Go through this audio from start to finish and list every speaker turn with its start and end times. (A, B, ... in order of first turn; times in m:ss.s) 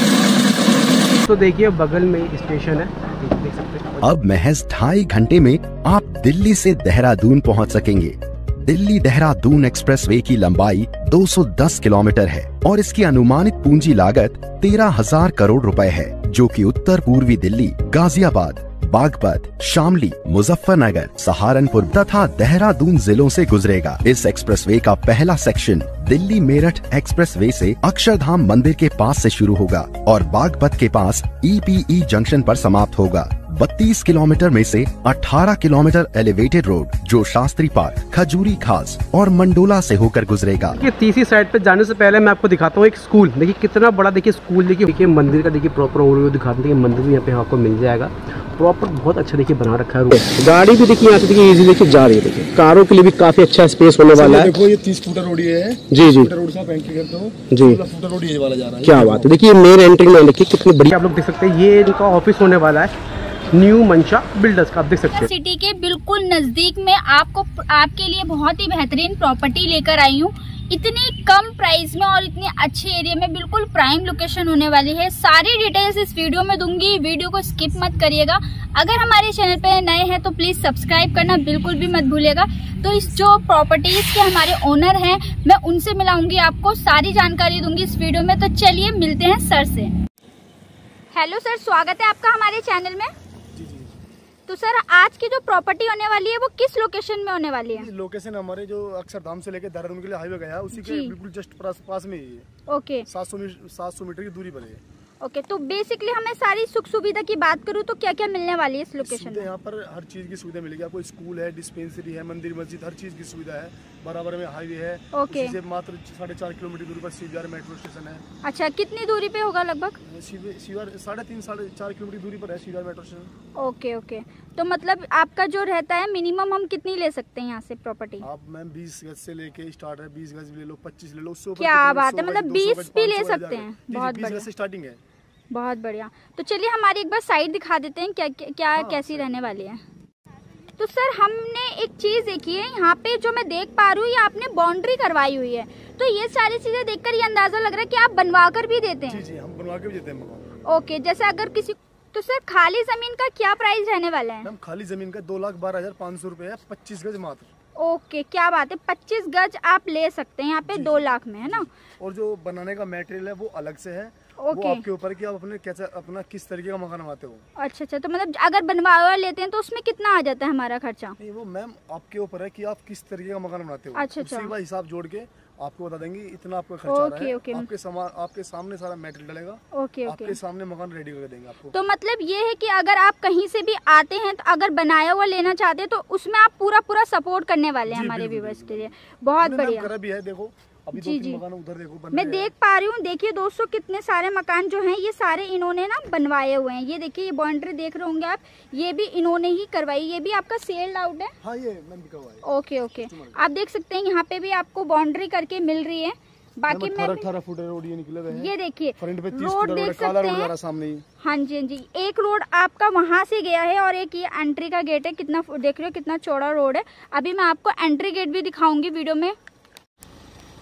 0:00.9-0:04.1 A
0:04.0-0:40.8 B
0:40.8-0:54.5 A
0:54.1-0:59.4 C
0:55.9-0:56.3 A
0:57.5-0:57.8 A
0:58.8-1:02.9 A
1:03.5-1:05.3 A
1:05.1-1:29.9 D
1:31.1-1:33.1 D
1:33.5-1:34.0 C
1:34.5-1:37.9 D
1:37.7-1:42.5 C
1:40.7-1:41.1 D
1:42.7-1:43.1 D
1:43.1-1:44.8 C
1:45.2-1:49.5 D
1:49.0-1:58.2 C
1:55.1-1:55.5 D
1:58.4-2:00.0 D
2:00.0-2:03.3 C
2:03.6-2:08.2 D
2:08.2-2:15.0 C
2:11.6-2:14.5 D
2:15.5-2:19.8 D
2:18.7-2:19.5 C
2:20.8-2:29.2 D
2:29.1-2:30.4 C
2:30.6-2:34.5 D
2:34.4-2:37.5 C
2:37.8-2:41.7 D
2:40.6-2:47.4 C
2:44.4-2:44.8 D
2:47.6-2:51.2 D
2:51.2-3:01.7 C
2:54.0-2:54.5 D
2:56.9-2:57.7 D
2:59.7-3:00.3 D
3:01.7-3:09.9 D
3:07.9-3:12.5 C
3:11.0-3:11.4 D
3:12.1-3:21.3 D
3:21.4-3:22.4 C
3:22.4-3:27.2 D
3:23.1-3:23.4 C
3:26.7-3:31.0 C
3:28.3-3:30.5 D
3:31.2-3:39.4 D